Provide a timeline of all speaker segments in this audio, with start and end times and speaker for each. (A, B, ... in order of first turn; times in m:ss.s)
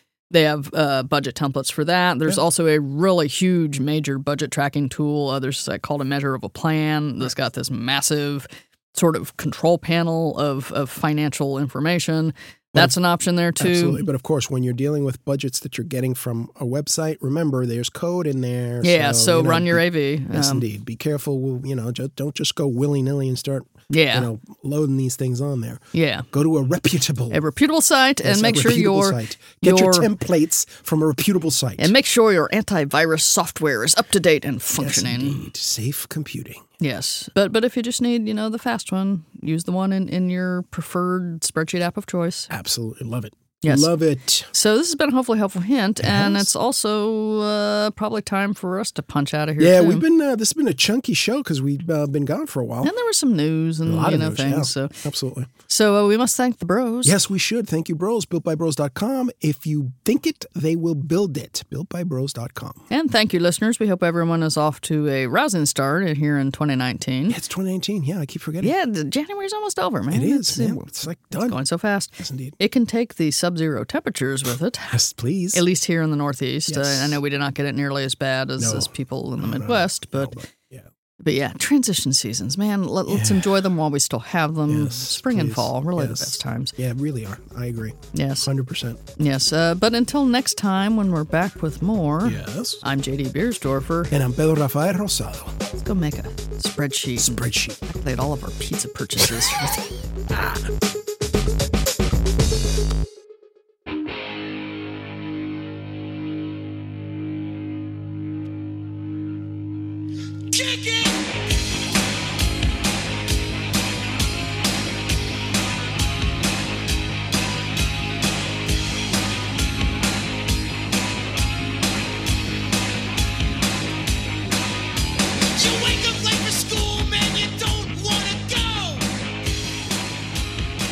0:00.3-0:14.0 A
0:13.6-0:27.4 B
0:18.8-0:20.6 A
0:23.9-0:24.3 A
0:25.9-0:26.3 A
0:27.3-0:30.1 A
0:28.2-0:31.9 B
0:31.8-0:35.4 A
0:34.8-0:36.6 B
0:36.8-0:42.5 A
0:42.5-0:44.5 B
0:43.6-0:43.9 A
0:44.5-0:50.0 A
0:46.0-0:46.5 B
0:49.6-0:52.9 B
0:52.8-0:54.9 A
0:53.9-0:55.5 B
0:55.7-0:57.1 A
0:57.0-1:02.8 B
1:02.9-1:07.4 A
1:07.3-1:08.7 B
1:08.6-1:10.9 A
1:10.1-1:11.6 B
1:11.4-1:15.0 A
1:12.2-1:12.6 B
1:14.9-1:15.6 B
1:15.5-1:20.4 A
1:16.7-1:17.2 B
1:18.6-1:20.9 B
1:21.2-1:26.7 A
1:23.1-1:23.5 B
1:24.7-1:29.0 B
1:28.1-1:28.5 A
1:29.2-1:34.1 A
1:32.2-1:32.8 B
1:34.1-1:35.6 B
1:35.7-1:39.9 A
1:37.2-1:37.8 B
1:40.3-1:40.7 B
2:05.5-2:09.1 B